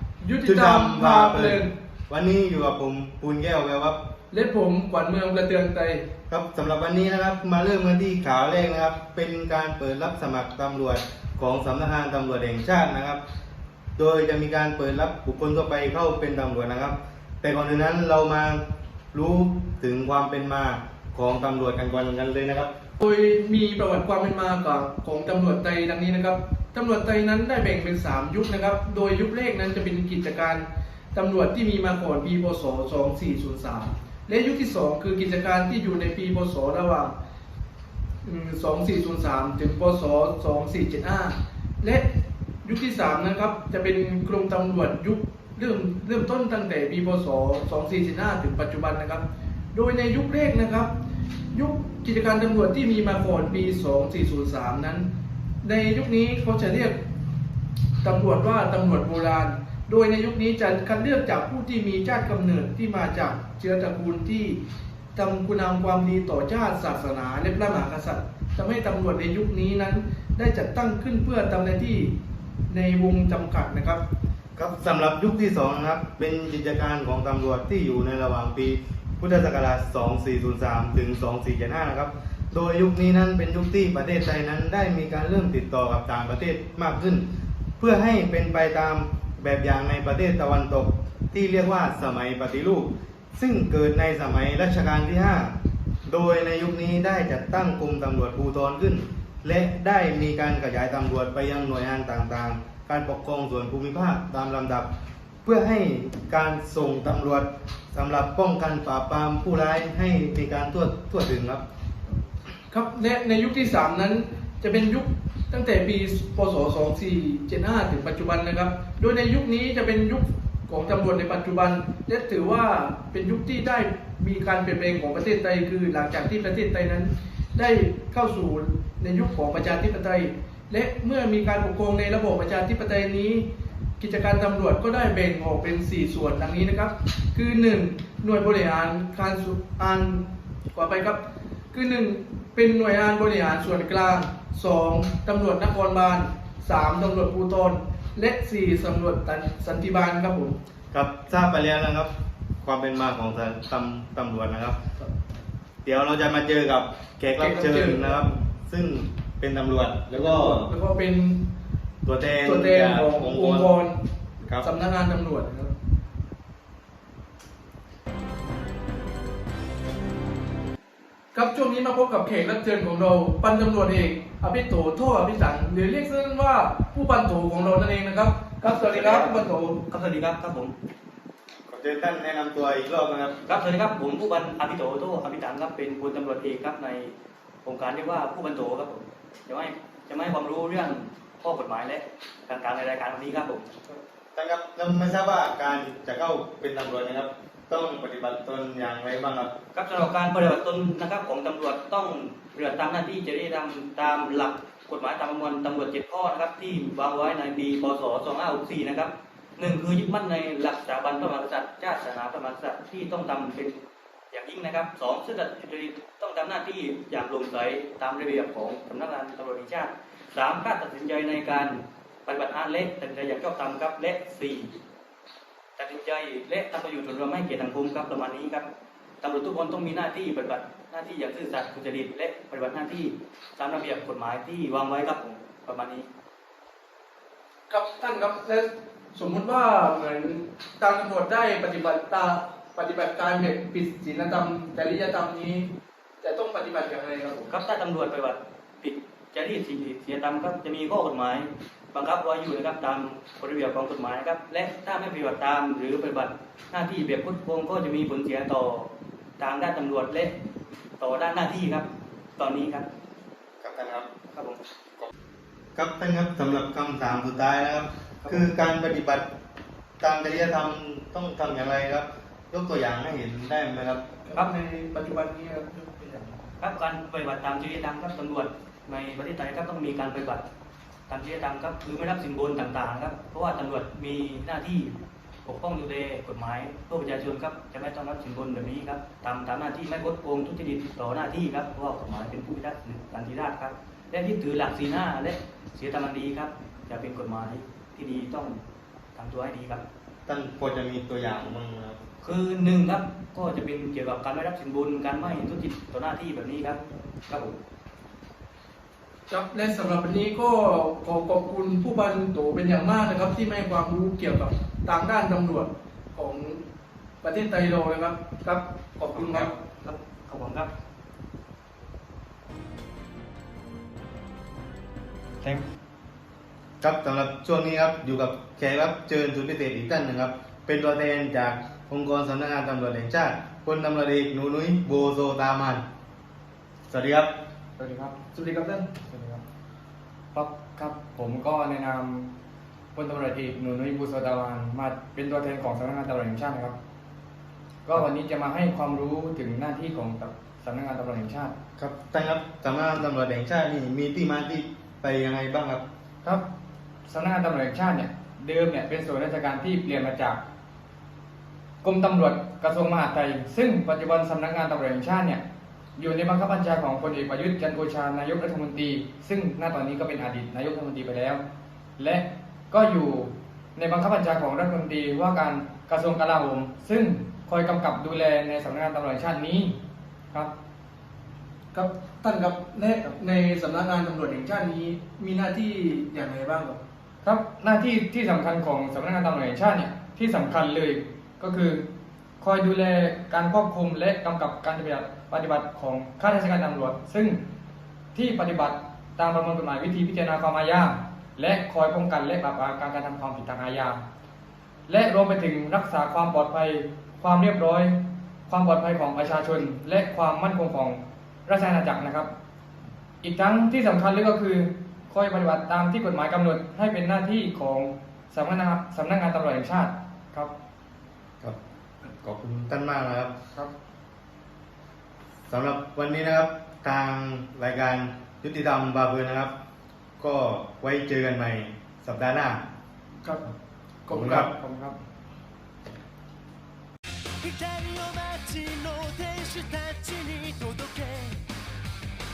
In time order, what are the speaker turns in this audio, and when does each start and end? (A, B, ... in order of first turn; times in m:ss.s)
0:00.2-0:01.7 A
0:00.4-0:04.0 B
0:04.3-0:06.0 A
0:06.3-0:13.2 B
0:14.0-0:22.7 B
0:23.0-0:37.2 A
0:38.2-0:42.1 A
0:42.6-0:50.9 A
0:51.5-0:55.1 A
0:55.6-0:57.0 A
0:58.0-1:04.6 A
1:05.2-1:12.2 A
1:12.7-1:14.0 A
1:14.6-1:27.3 B
1:27.8-1:44.9 B
1:45.4-1:51.6 B
1:52.7-2:13.5 A
2:14.0-2:21.2 A
2:21.7-2:30.6 A
2:30.9-2:32.1 B
2:32.6-2:34.8 B
2:35.8-2:40.7 B
2:37.4-2:38.3 A
2:40.2-2:41.5 A
2:42.0-2:43.7 B
2:42.4-2:44.0 A
2:44.6-2:45.7 A
2:51.3-2:59.8 A
2:58.8-2:59.4 C
2:59.9-3:00.7 C
3:01.7-3:03.4 B
3:03.5-3:13.9 C
3:14.4-3:19.5 B
3:19.7-3:44.8 C
3:45.8-3:48.7 C
3:49.2-3:56.1 C
3:57.7-4:05.7 A
4:06.2-4:07.5 A
4:07.5-4:20.3 C
4:21.0-4:22.9 C
4:23.6-4:24.1 B
4:24.3-4:24.6 C
4:25.8-4:29.3 B
4:30.0-4:34.0 B
4:34.2-4:36.4 A
4:36.6-4:40.4 C
4:41.1-4:58.6 C
4:59.2-4:59.8 C
5:00.3-5:02.0 B
5:02.2-5:07.6 C
5:09.3-5:16.6 A
5:17.2-5:19.5 A
5:19.1-5:20.7 C
5:25.4-5:25.7 D
5:26.8-5:35.8 B
5:36.9-5:37.4 B
5:37.8-5:38.2 D
5:38.3-5:38.9 A
5:39.0-5:39.4 D
5:40.3-5:42.3 D
5:43.0-5:46.8 D
5:47.9-5:51.5 D
5:51.8-5:55.8 B
5:57.0-6:00.4 D
6:01.8-6:05.4 D
6:06.0-6:11.4 D
6:12.0-6:19.8 D
6:21.7-6:26.8 A
6:27.2-6:31.8 D
6:32.4-6:37.4 D
6:38.1-6:44.0 D
6:44.9-6:52.3 D
6:53.2-7:00.5 D
7:02.2-7:03.3 B
7:05.5-7:09.5 B
7:10.2-7:12.6 B
7:13.2-7:13.5 A
7:14.1-7:14.5 A
7:14.1-7:14.5 B
7:14.4-7:15.0 D
7:17.4-7:21.5 E